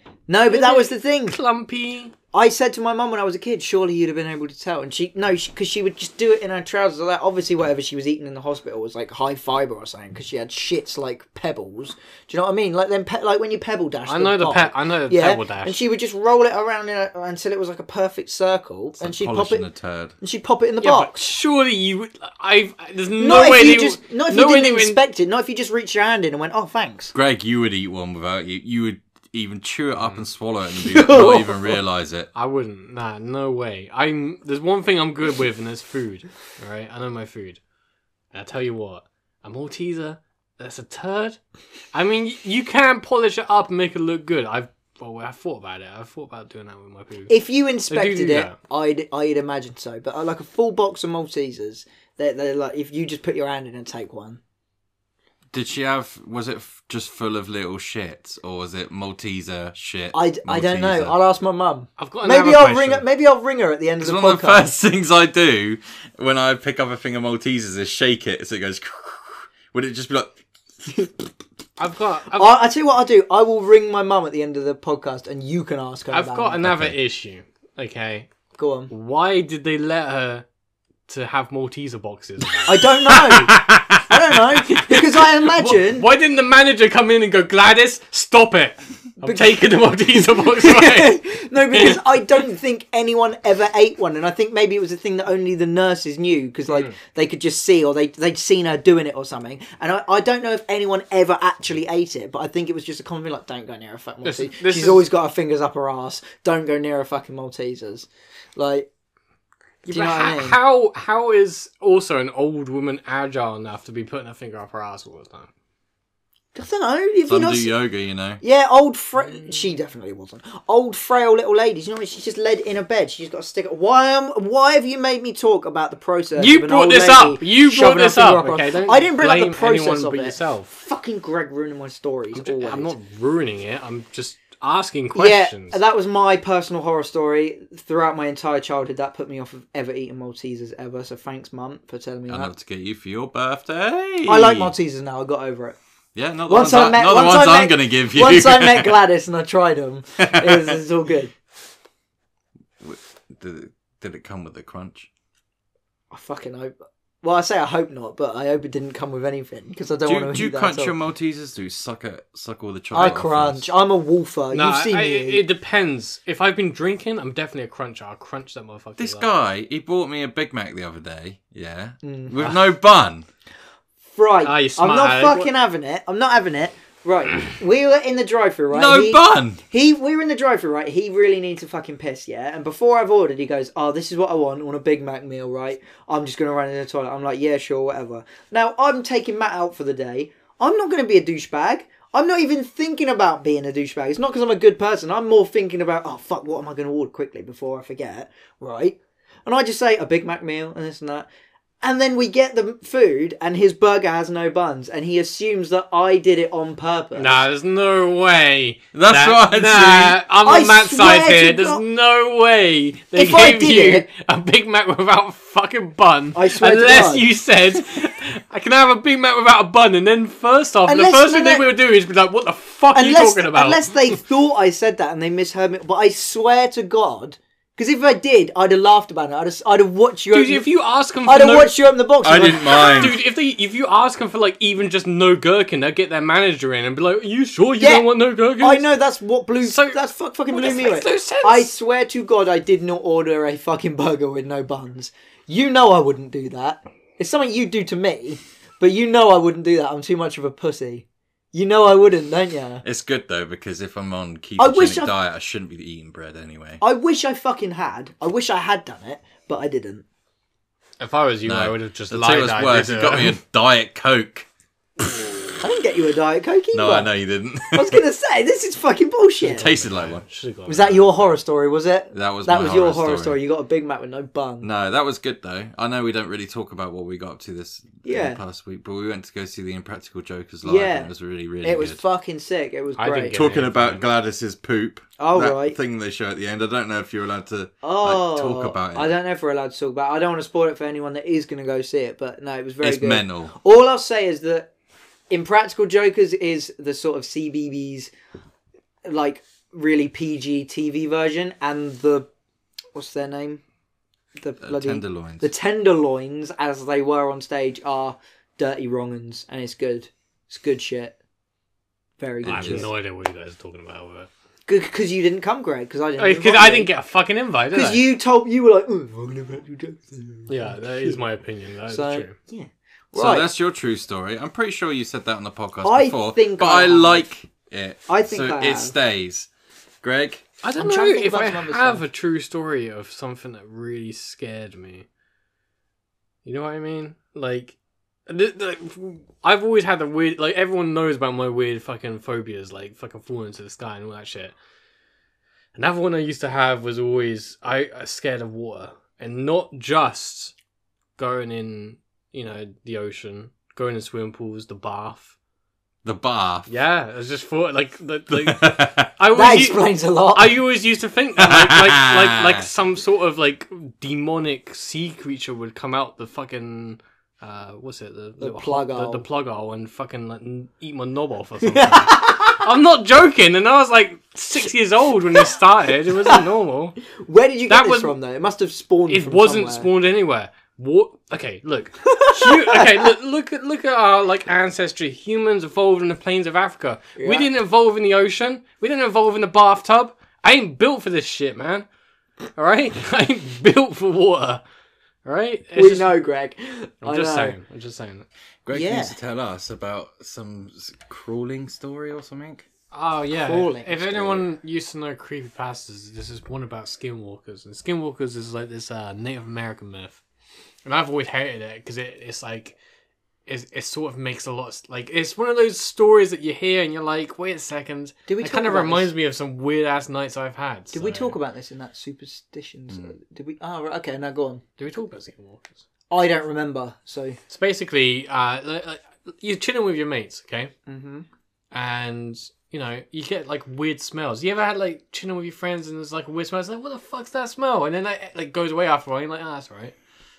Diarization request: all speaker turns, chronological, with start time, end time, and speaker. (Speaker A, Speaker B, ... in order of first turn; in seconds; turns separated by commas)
Speaker A: 0.3-1.4, Speaker B: 0.5-2.1, Speaker A: 2.3-19.7, Speaker B: 14.1-15.8, Speaker C: 19.0-20.1, Speaker A: 20.2-21.2, Speaker B: 20.8-25.0, Speaker A: 23.2-27.1, Speaker C: 27.1-32.3, Speaker A: 30.9-31.6, Speaker B: 31.2-31.4, Speaker B: 32.3-37.6, Speaker B: 38.3-41.4, Speaker B: 41.9-47.3, Speaker A: 47.3-54.4, Speaker B: 47.9-48.5, Speaker C: 55.5-61.1, Speaker A: 60.1-64.7, Speaker B: 62.0-63.0, Speaker C: 64.0-70.4, Speaker B: 71.8-72.5, Speaker A: 72.3-76.6, Speaker B: 76.1-78.3, Speaker C: 76.6-77.0, Speaker A: 78.5-78.9, Speaker B: 78.9-80.4, Speaker B: 81.1-92.0, Speaker A: 82.7-86.1, Speaker A: 89.2-108.9, Speaker B: 96.7-96.9, Speaker B: 104.2-105.0, Speaker B: 109.8-115.5, Speaker A: 109.9-110.6, Speaker A: 116.5-117.7, Speaker C: 117.3-118.4, Speaker A: 118.4-132.9, Speaker B: 126.4-130.8, Speaker B: 132.3-135.8, Speaker A: 135.1-142.5, Speaker C: 142.3-144.7, Speaker A: 144.2-145.8, Speaker C: 146.1-149.0, Speaker A: 146.5-151.3, Speaker C: 150.2-150.8, Speaker C: 152.8-155.1, Speaker A: 156.1-160.9, Speaker C: 160.0-163.7, Speaker A: 162.9-165.4, Speaker B: 164.5-169.3, Speaker C: 169.0-173.3, Speaker A: 172.0-172.5, Speaker A: 174.1-201.3, Speaker B: 174.4-175.5, Speaker C: 178.7-179.6, Speaker A: 201.8-207.4, Speaker B: 207.1-224.2, Speaker C: 208.9-210.2, Speaker A: 210.4-211.8, Speaker A: 213.1-214.1, Speaker A: 216.3-217.2, Speaker A: 220.8-221.7, Speaker A: 222.9-230.7, Speaker B: 230.3-231.8, Speaker A: 231.2-233.2, Speaker C: 232.2-233.2, Speaker B: 232.5-238.9, Speaker A: 237.8-238.1, Speaker A: 238.6-252.8, Speaker B: 239.6-241.7, Speaker C: 252.8-256.8, Speaker A: 254.6-255.1, Speaker A: 256.8-260.0, Speaker B: 261.0-263.4, Speaker C: 261.4-264.5, Speaker A: 265.6-267.1, Speaker C: 266.7-268.0, Speaker A: 267.7-269.7, Speaker C: 269.4-270.2, Speaker B: 269.4-271.3, Speaker A: 270.7-274.7, Speaker C: 272.1-273.4, Speaker C: 274.6-282.0, Speaker A: 278.0-278.4, Speaker A: 280.6-281.1, Speaker A: 281.6-283.4, Speaker B: 283.0-284.0, Speaker C: 283.3-289.1, Speaker A: 285.2-285.8, Speaker A: 287.8-294.7, Speaker C: 292.8-293.5, Speaker A: 295.3-298.1, Speaker A: 299.0-302.3, Speaker A: 302.9-303.6, Speaker A: 304.4-311.2, Speaker C: 304.6-305.5, Speaker A: 312.2-312.9, Speaker C: 312.4-312.9, Speaker B: 312.4-314.3, Speaker A: 314.7-316.9, Speaker B: 316.2-318.0, Speaker A: 317.7-321.2, Speaker B: 320.5-322.4, Speaker A: 321.9-323.5, Speaker C: 323.1-329.5, Speaker A: 325.8-327.3, Speaker A: 328.1-328.9, Speaker C: 330.0-330.4, Speaker B: 330.6-335.1, Speaker A: 330.8-332.0, Speaker B: 336.4-337.7, Speaker B: 338.3-344.5, Speaker B: 345.7-350.5, Speaker B: 351.2-355.3, Speaker C: 356.0-356.7, Speaker B: 356.7-377.0, Speaker C: 358.3-359.1, Speaker A: 359.3-360.5, Speaker C: 361.4-362.7, Speaker A: 368.4-369.2, Speaker A: 371.6-372.6, Speaker A: 377.0-379.9, Speaker B: 377.7-378.1, Speaker B: 379.1-391.9, Speaker A: 382.1-383.0, Speaker A: 387.2-387.5, Speaker B: 392.6-394.6, Speaker B: 395.2-396.1, Speaker A: 395.7-397.6, Speaker B: 397.0-398.2, Speaker C: 398.6-402.7, Speaker A: 398.7-399.2, Speaker B: 402.9-410.2, Speaker A: 403.4-404.4, Speaker B: 410.8-412.8, Speaker B: 413.5-421.4, Speaker A: 418.3-419.1, Speaker A: 420.9-424.6, Speaker B: 424.8-425.8, Speaker A: 426.1-427.4, Speaker B: 427.5-430.7, Speaker A: 430.9-431.3, Speaker B: 431.7-439.9